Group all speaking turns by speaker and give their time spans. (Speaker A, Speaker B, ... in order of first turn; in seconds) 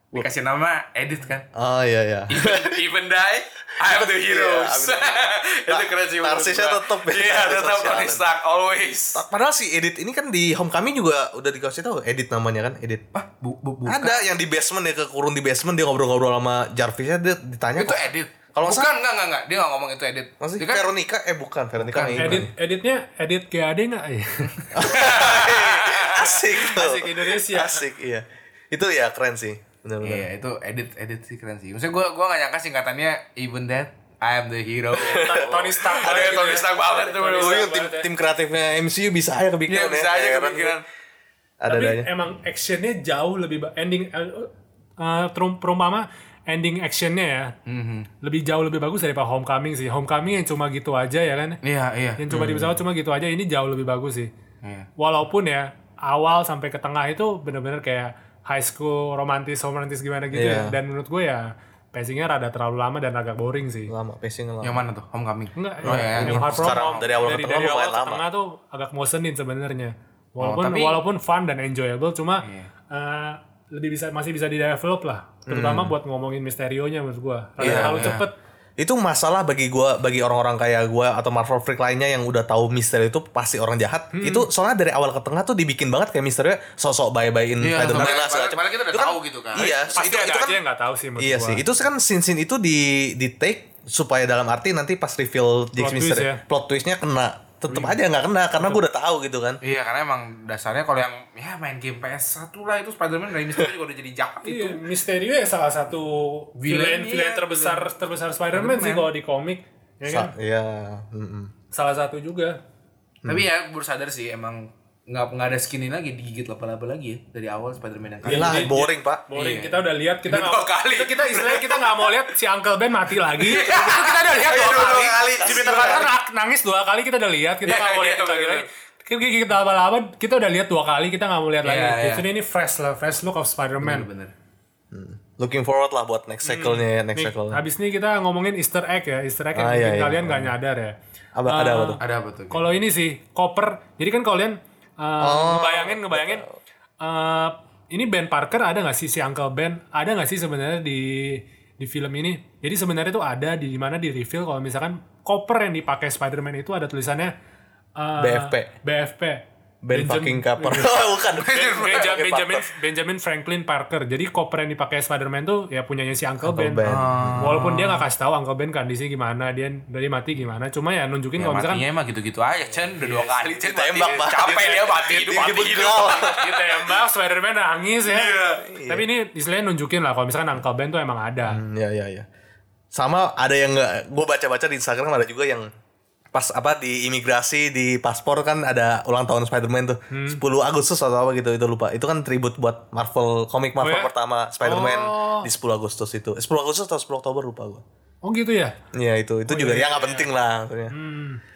Speaker A: 0.1-1.4, 2.3-9.2, 13.1-14.2, 17.8-20.9, 21.8-22.5, 24.8-26.5, 30.0-37.7, 39.7-40.8, 47.6-48.1, 51.6-52.2, 54.6-54.9, 64.6-67.3, 70.4-71.0, 72.4-72.7, 77.6-78.2, 87.6-90.0, 99.6-104.8, 106.6-107.9, 108.5-109.1, 113.2-118.7, 119.3-122.1, 123.3-126.1, 127.6-128.7, 131.6-132.2, 133.8-134.3, 142.0-142.7, 161.4-162.1, 166.8-168.1, 171.4-176.9, 178.1-178.6
Speaker B: 1.5-2.8, 3.8-8.2, 9.1-13.0, 13.8-18.9, 20.4-22.5, 24.7-30.3, 35.0-35.5, 37.4-40.8, 41.6-42.1, 52.3-52.8, 60.3-60.8, 63.9-64.8, 65.8-68.2, 75.5-75.9, 77.6-78.2, 78.8-90.6, 91.2-99.6, 110.1-111.5, 118.2-119.2, 124.7-126.1, 134.9-137.6, 139.5-140.5, 141.3-142.0, 145.2-146.5, 158.2-158.7, 159.8-162.7, 166.4-167.7, 173.6-176.3, 178.6-179.0, 181.5-182.2, 182.9-185.7, 186.3-197.8, 198.9-200.9
Speaker C: 22.2-24.6, 26.4-27.8, 35.0-38.1, 41.7-47.5, 48.2-51.6, 52.2-54.3, 55.0-63.9, 65.5-78.3, 84.1-84.5, 89.9-91.6, 95.8-96.4, 97.7-98.0, 104.4-110.3, 111.7-112.6, 118.2-134.1, 136.4-146.4, 147.0-157.3, 157.9-161.0, 161.5-171.8, 173.0-173.6, 174.1-181.6, 190.1-190.4, 193.8-195.5, 198.2-198.7, 199.5-200.3, 200.9-201.4